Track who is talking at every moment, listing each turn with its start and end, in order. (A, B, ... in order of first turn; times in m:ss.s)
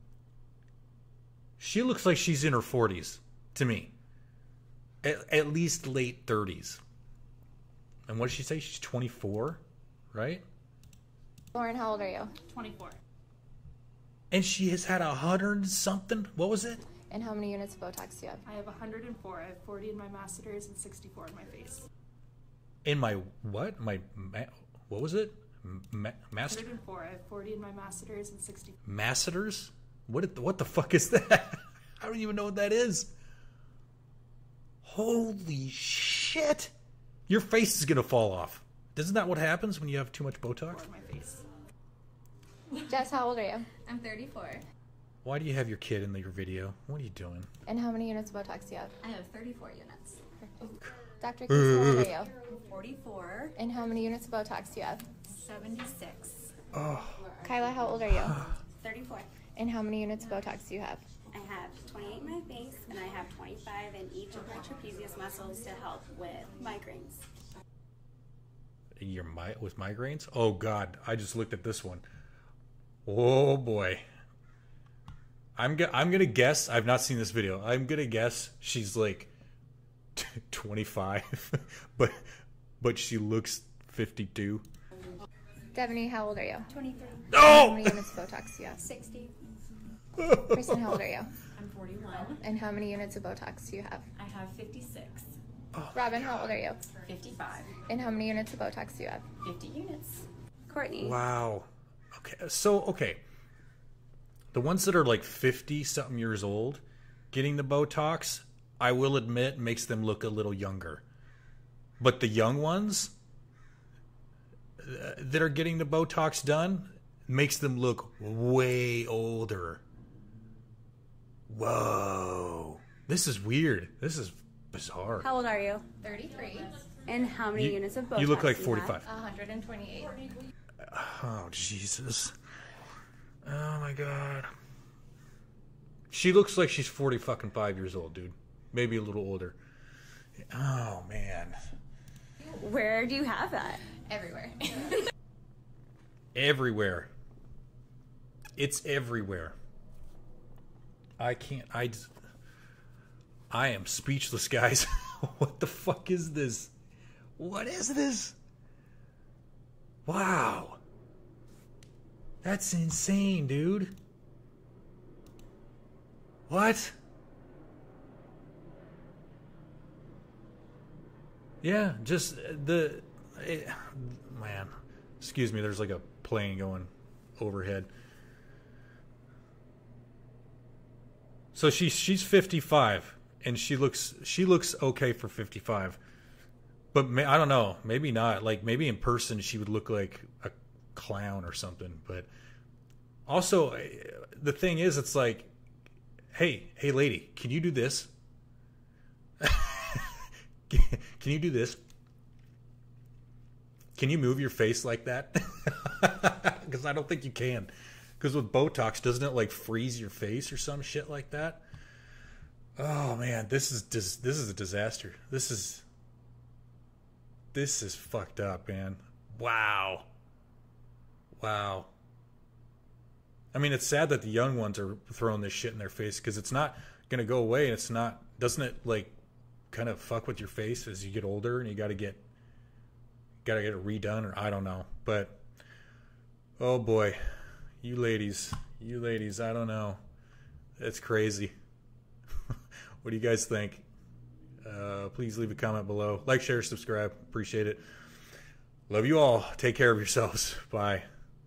0:01.6-0:03.9 A
0:05.0-0:06.8 A
0:08.1-0:09.6 A
0:10.1-0:10.4 A
0:11.5-0:12.3 B
0:12.5-0:13.0 C
0:14.3-0:16.8 A
0:17.1-0:18.4 B
0:18.4-0:21.8 C
0:22.8-0:26.7 A
0:26.4-0:28.8 C
0:28.8-0:33.1 A
0:34.8-0:36.7 A
0:37.3-0:40.8 A
0:40.7-0:41.4 C
0:42.8-0:43.7 B
0:43.8-0:44.6 D
0:45.2-0:47.5 A
0:47.7-0:48.9 B
0:49.0-0:50.0 D
0:50.8-0:52.1 A
0:51.2-0:52.4 B
0:52.5-0:53.2 D
0:53.1-0:53.5 E
0:53.6-0:55.0 B
0:55.3-0:56.5 E
0:56.7-0:57.2 A
0:57.4-0:58.4 B
0:58.8-0:59.3 D
0:59.6-1:01.0 B
1:01.3-1:07.2 D
1:09.0-1:12.0 A
1:13.0-1:14.0 A
1:15.6-1:19.3 A
1:20.2-1:22.2 A
1:22.8-1:24.6 A
1:25.7-1:26.7 B
1:26.7-1:27.3 E
1:27.3-1:28.0 A
1:27.3-1:28.9 B
1:30.2-1:30.8 A
1:30.5-1:31.3 B
1:31.6-1:32.4 E
1:32.4-1:34.1 B
1:34.2-1:35.3 E
1:35.7-1:36.6 A
1:35.9-1:36.8 B
1:37.0-1:37.7 E
1:37.8-1:39.3 B
1:39.4-1:40.3 E
1:40.7-1:41.2 D
1:41.0-1:43.2 A
1:44.5-1:51.0 A
1:52.0-1:53.1 A
1:54.8-1:59.8 A
2:01.5-2:05.3 A
2:05.2-2:05.9 D
2:06.0-2:06.7 B
2:06.9-2:09.0 D
2:07.6-2:09.1 A
2:09.1-2:10.2 B
2:10.8-2:12.3 A
2:13.4-2:14.5 A
2:16.1-2:19.6 A
2:20.5-2:21.6 A
2:22.4-2:23.9 D
2:24.0-2:25.0 B
2:26.3-2:27.1 A
2:28.6-2:29.6 A
2:31.2-2:32.1 A
2:33.5-2:36.7 A
2:37.4-2:38.4 A
2:40.0-2:40.8 A
2:42.4-2:43.9 A
2:46.5-2:46.9 A
2:51.6-2:57.9 A
3:01.5-3:06.0 A
3:06.9-3:12.3 A
3:13.3-3:15.5 A
3:16.3-3:18.1 A
3:19.4-3:21.8 A
3:23.9-3:31.6 A
3:32.8-3:35.8 A
3:37.5-3:40.1 A
3:41.4-3:41.9 A
3:43.5-3:49.2 A
3:49.7-3:52.2 A
3:53.4-3:55.4 A
3:56.6-3:57.2 A
3:57.8-4:00.0 A
4:00.8-4:01.5 A
4:03.0-4:03.9 A
4:04.6-4:07.8 A
4:08.9-4:11.0 A